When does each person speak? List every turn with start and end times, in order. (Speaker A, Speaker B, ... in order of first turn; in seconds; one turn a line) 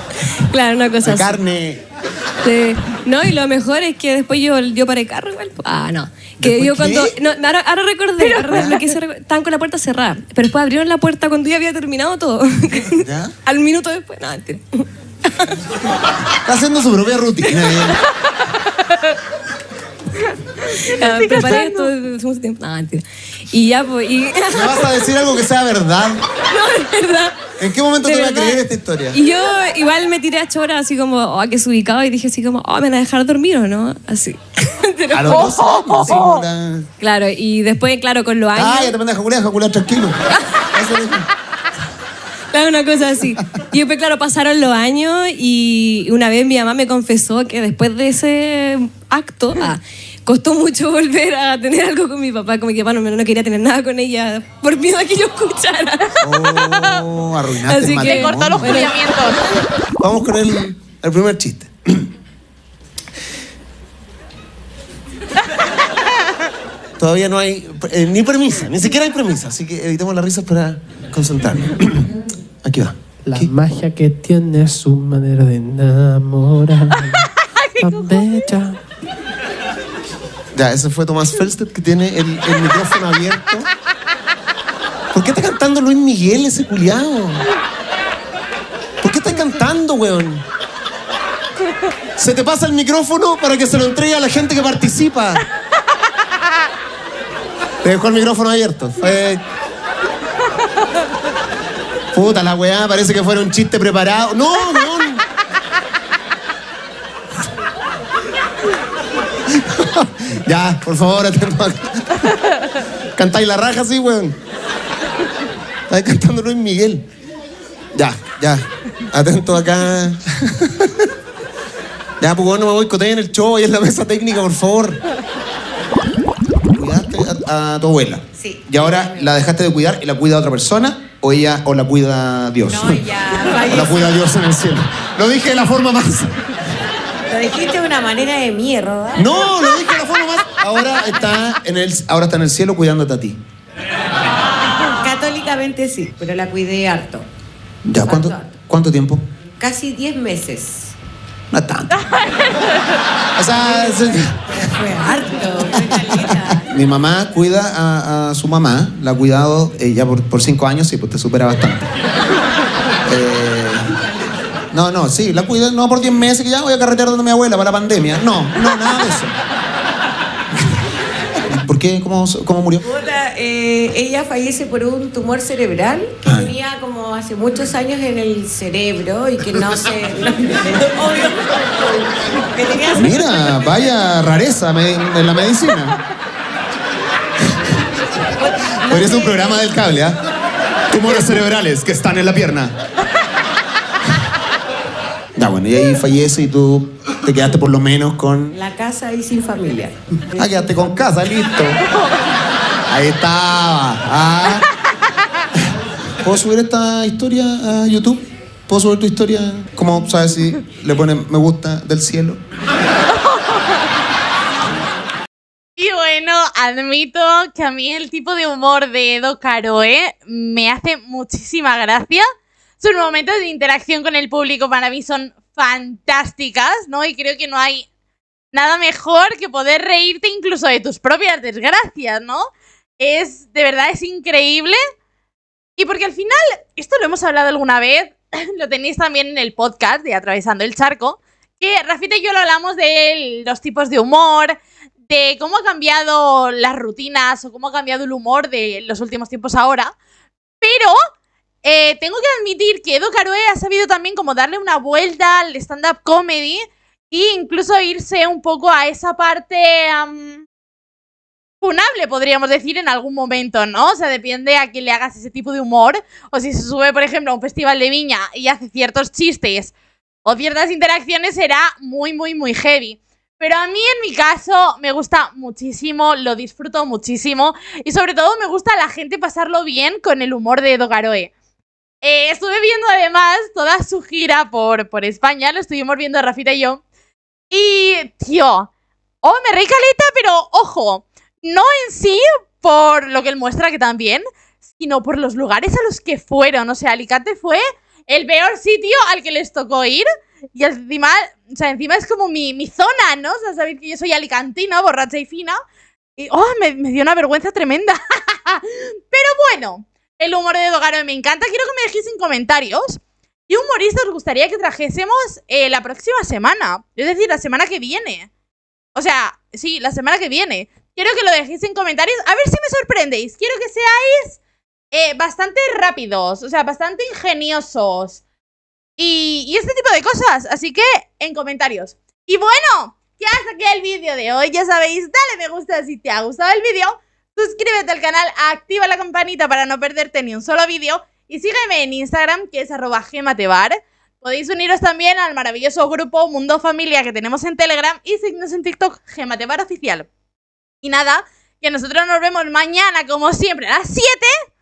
Speaker A: 0.5-1.4
Speaker B: 1.0-1.8
Speaker A: 2.4-14.8
Speaker B: 6.4-7.2
Speaker B: 8.4-8.8
Speaker B: 12.9-13.3
Speaker B: 16.3-18.0
Speaker A: 20.8-25.0
Speaker B: 21.4-21.6
Speaker C: 21.5-21.9
Speaker B: 24.5-26.2
Speaker A: 26.4-36.3
Speaker B: 27.6-29.2
Speaker B: 35.1-36.9
Speaker A: 37.0-39.0
Speaker B: 38.5-40.2
Speaker B: 40.7-41.3
Speaker A: 42.5-56.3
Speaker B: 56.2-58.9
Speaker A: 57.6-59.4
Speaker C: 58.0-59.4
Speaker B: 60.0-62.1
Speaker B: 67.0-73.5
Speaker D: 73.2-77.3
Speaker C: 77.6-78.5
Speaker D: 77.8-78.8
Speaker B: 80.5-83.7
Speaker B: 85.1-87.5
Speaker B: 89.0-90.5
Speaker B: 92.2-95.5
Speaker B: 97.8-99.4
Speaker B: 102.1-105.2
Speaker B: 109.5-112.3
Speaker B: 113.2-114.4
Speaker B: 115.9-117.1
Speaker B: 117.9-121.1
Speaker B: 122.2-125.0
Speaker B: 126.7-136.4
Speaker E: 128.4-129.3
Speaker E: 132.7-134.2
Speaker E: 137.3-139.5
Speaker B: 139.2-143.4
Speaker E: 144.8-147.3
Speaker B: 147.9-149.3
Speaker E: 147.9-148.5
Speaker E: 149.6-150.9
Speaker B: 151.5-152.1
Speaker B: 153.4-154.6
Speaker E: 153.6-154.0
Speaker E: 154.6-156.7
Speaker B: 155.9-161.9
Speaker B: 163.1-163.9
Speaker B: 164.7-169.3
Speaker B: 171.5-172.8
Speaker E: 172.8-181.4
Speaker B: 176.2-176.5
Speaker E: 182.5-183.2
Speaker B: 182.9-186.0
Speaker E: 188.8-189.6
Speaker B: 188.8-190.2
Speaker B: 190.9-192.8
Speaker B: 195.4-198.6
Speaker E: 198.5-201.0
Speaker B: 200.4-201.8
Speaker B: 202.9-204.7
Speaker B: 206.2-212.4
Speaker C: 215.8-222.2
Speaker C: 222.8-227.9
Speaker C: 228.5-232.5
Speaker C: 233.0-234.8
Speaker C: 235.8-244.6
Speaker C: 245.1-249.9
Speaker C: 250.6-251.0
Speaker C: 251.6-260.4
Speaker C: 261.6-269.7
Speaker C: 270.2-281.3
Speaker C: 282.0-286.8
Speaker C: 287.5-288.7
Speaker C: 289.2-305.6
Speaker C: 306.2-318.3
Speaker C: 318.9-324.4
Speaker C: 324.9-328.2
Speaker C: 329.0-350.1
Speaker C: 350.8-354.3